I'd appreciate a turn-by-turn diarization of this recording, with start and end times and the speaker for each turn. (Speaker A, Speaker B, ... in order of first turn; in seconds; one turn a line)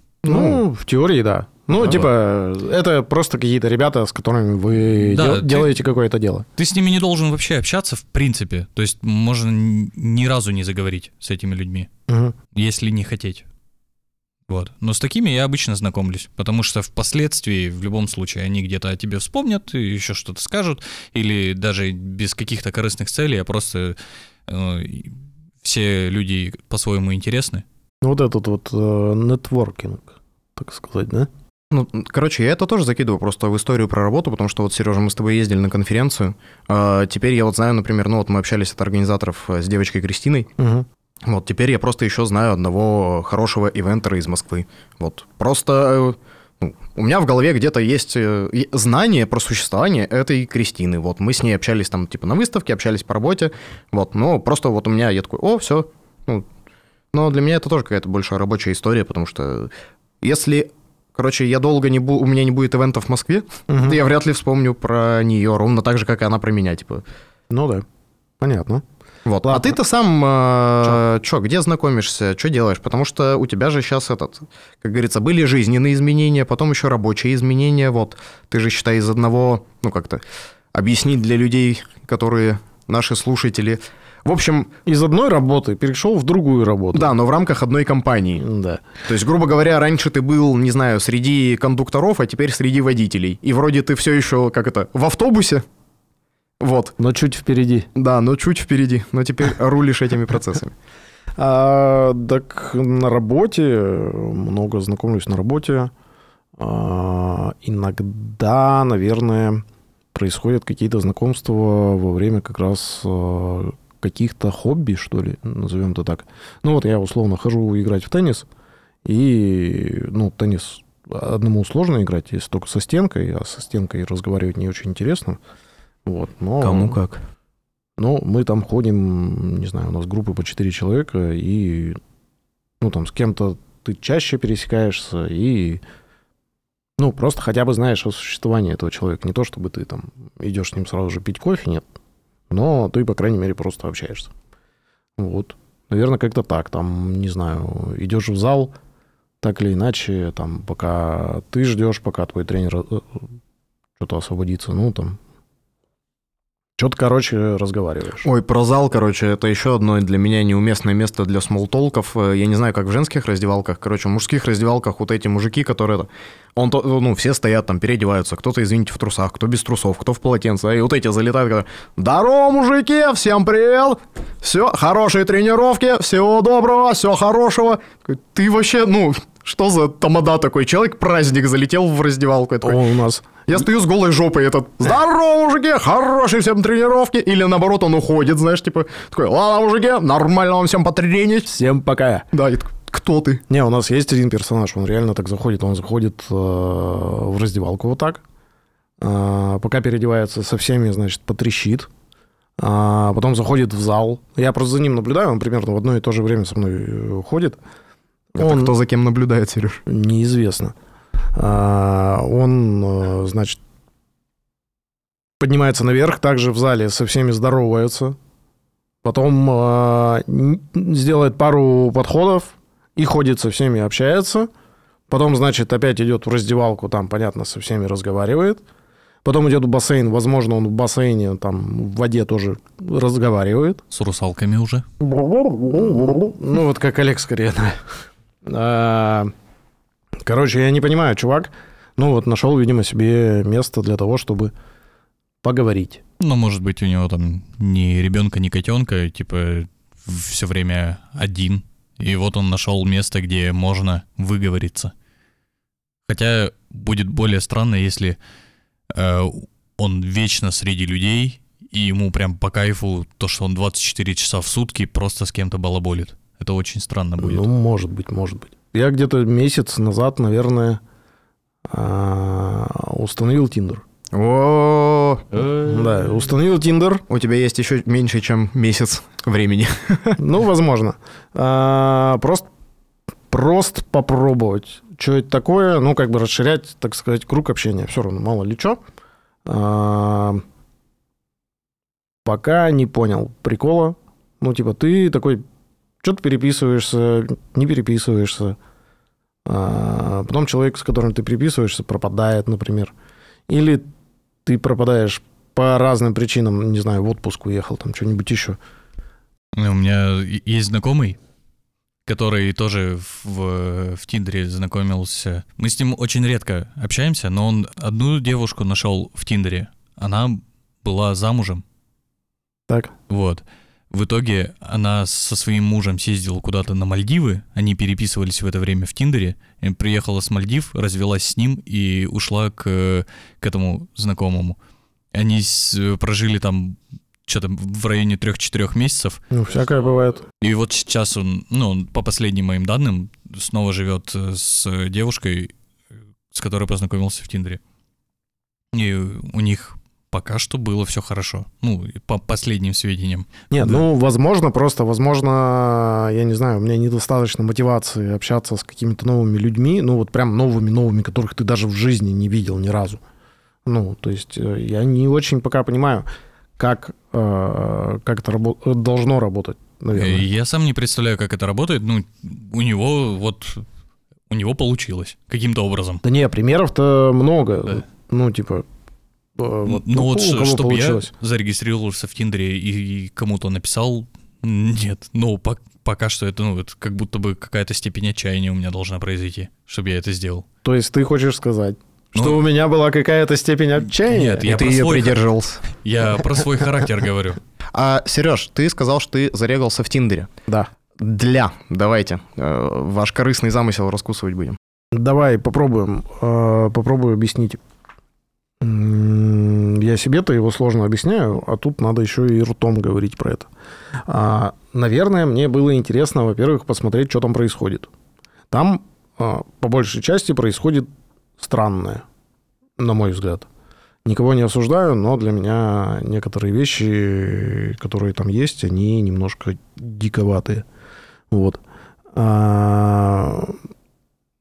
Speaker A: 0.2-6.5
Speaker B: 0.3-0.6
Speaker C: 1.8-2.0
Speaker C: 5.0-5.7
Speaker C: 6.6-11.9
Speaker A: 12.1-12.3
Speaker C: 12.5-13.4
Speaker C: 14.5-27.6
Speaker A: 28.0-31.3
Speaker B: 31.7-40.5
Speaker A: 40.6-40.9
Speaker B: 41.3-56.5
Speaker B: 57.1-67.0
Speaker A: 63.7-64.0
Speaker A: 67.5-67.8
Speaker A: 68.4-68.8
Speaker B: 69.2-80.2
Speaker A: 69.5-69.8
Speaker B: 80.7-84.7
Speaker A: 84.8-87.1
Speaker B: 86.9-88.4
Speaker A: 88.4-88.9
Speaker B: 89.0-95.6
Speaker B: 96.6-96.9
Speaker A: 97.0-97.9
Speaker B: 97.9-100.7
Speaker A: 101.4-105.9
Speaker A: 106.6-118.5
Speaker A: 119.0-125.4
Speaker A: 126.0-127.0
Speaker B: 126.6-127.2
Speaker A: 128.0-132.0
Speaker A: 132.8-135.8
Speaker A: 137.0-141.8
Speaker A: 142.5-144.3
Speaker A: 145.2-148.7
Speaker A: 149.4-153.2
Speaker A: 154.0-155.2
Speaker A: 156.8-158.2
Speaker B: 158.2-182.8
Speaker A: 182.6-183.3
Speaker B: 183.5-191.5
Speaker A: 191.5-192.3
Speaker B: 192.3-193.4
Speaker A: 193.5-198.2
Speaker A: 199.0-201.9
Speaker A: 202.6-207.6
Speaker A: 208.3-208.7
Speaker B: 208.4-209.8
Speaker A: 209.9-210.7
Speaker A: 211.3-213.6
Speaker A: 215.4-218.2
Speaker A: 219.0-224.5
Speaker A: 225.1-228.6
Speaker A: 229.2-233.8
Speaker C: 233.9-234.8
Speaker A: 235.0-237.8
Speaker A: 238.4-239.3
Speaker A: 240.2-244.5
Speaker A: 245.4-246.0
Speaker C: 246.2-254.9
Speaker C: 256.1-258.2
Speaker C: 258.9-267.4
Speaker A: 267.2-270.8
Speaker A: 271.7-273.8
Speaker B: 274.1-275.2
Speaker A: 275.6-277.0
Speaker B: 277.1-280.2
Speaker A: 280.2-282.5
Speaker A: 283.3-288.8
Speaker A: 289.4-290.4
Speaker A: 292.2-295.4
Speaker A: 296.0-298.6
Speaker A: 299.4-302.9
Speaker A: 303.5-303.8
Speaker A: 304.4-308.6
Speaker C: 309.6-311.2
Speaker C: 312.1-321.6
Speaker C: 323.1-334.6
Speaker C: 335.1-339.2
Speaker A: 339.3-340.2
Speaker C: 340.4-345.5
Speaker C: 346.3-347.6
Speaker C: 348.7-353.8
Speaker A: 353.5-363.0
Speaker A: 363.6-366.1
Speaker A: 366.6-370.2
Speaker C: 369.9-373.6
Speaker C: 374.3-376.0
Speaker A: 376.0-378.6
Speaker A: 379.4-381.1
Speaker C: 379.6-390.4
Speaker A: 390.6-394.6
Speaker C: 394.0-397.4
Speaker B: 394.4-395.6
Speaker B: 397.7-400.3
Speaker B: 401.0-404.6
Speaker A: 404.9-407.6
Speaker A: 408.6-413.5
Speaker A: 414.1-417.9
Speaker A: 418.5-422.0
Speaker A: 422.8-423.5
Speaker A: 424.0-430.6
Speaker A: 431.3-431.6
Speaker A: 432.1-433.6